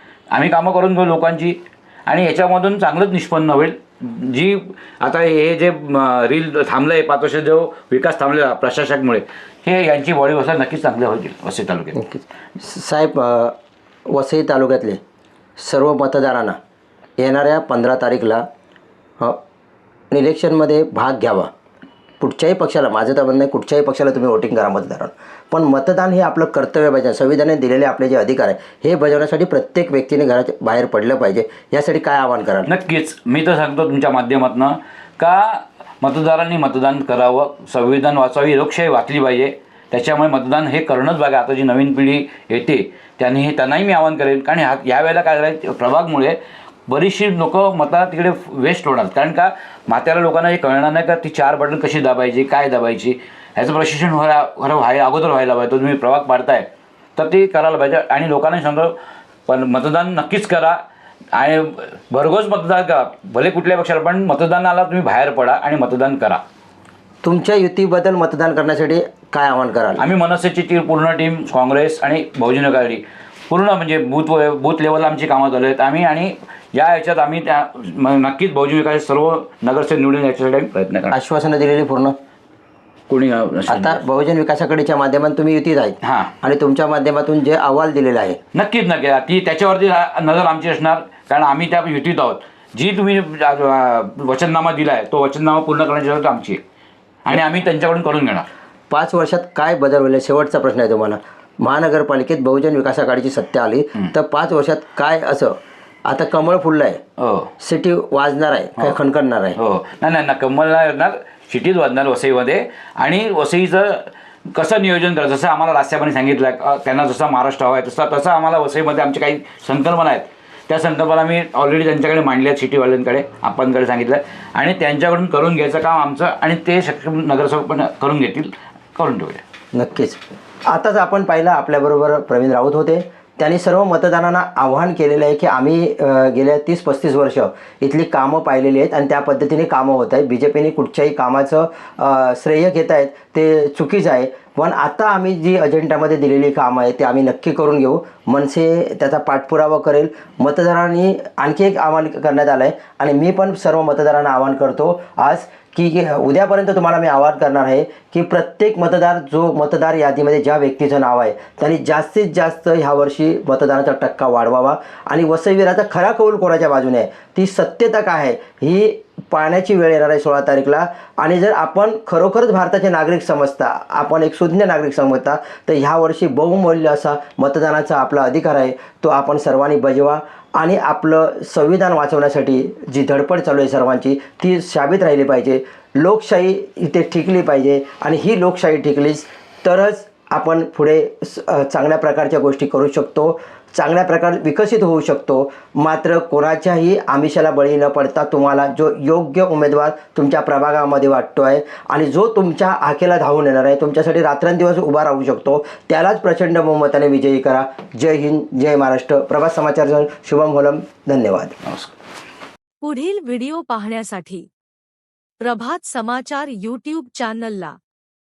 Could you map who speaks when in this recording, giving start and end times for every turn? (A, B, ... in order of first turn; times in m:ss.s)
0:00.3-0:12.0 A
0:11.9-0:13.5 B
0:14.1-0:15.0 B
0:15.6-0:16.6 B
0:17.2-0:18.4 B
0:20.1-0:21.5 B
0:22.2-0:32.7 B
0:32.6-1:00.8 A
1:01.3-1:06.4 A
1:07.2-1:10.0 B
1:10.0-1:21.2 A
1:21.1-1:22.1 B
1:23.1-1:24.0 A
1:23.7-1:28.4 B
1:26.0-1:26.3 A
1:28.5-1:36.6 A
1:37.2-1:38.4 A
1:38.9-1:47.0 B
1:47.2-1:47.5 A
1:47.6-1:49.6 B
1:49.6-2:09.4 A
2:09.7-3:31.6 B
3:31.6-3:31.9 A
3:32.8-3:34.5 C
3:35.4-3:37.8 C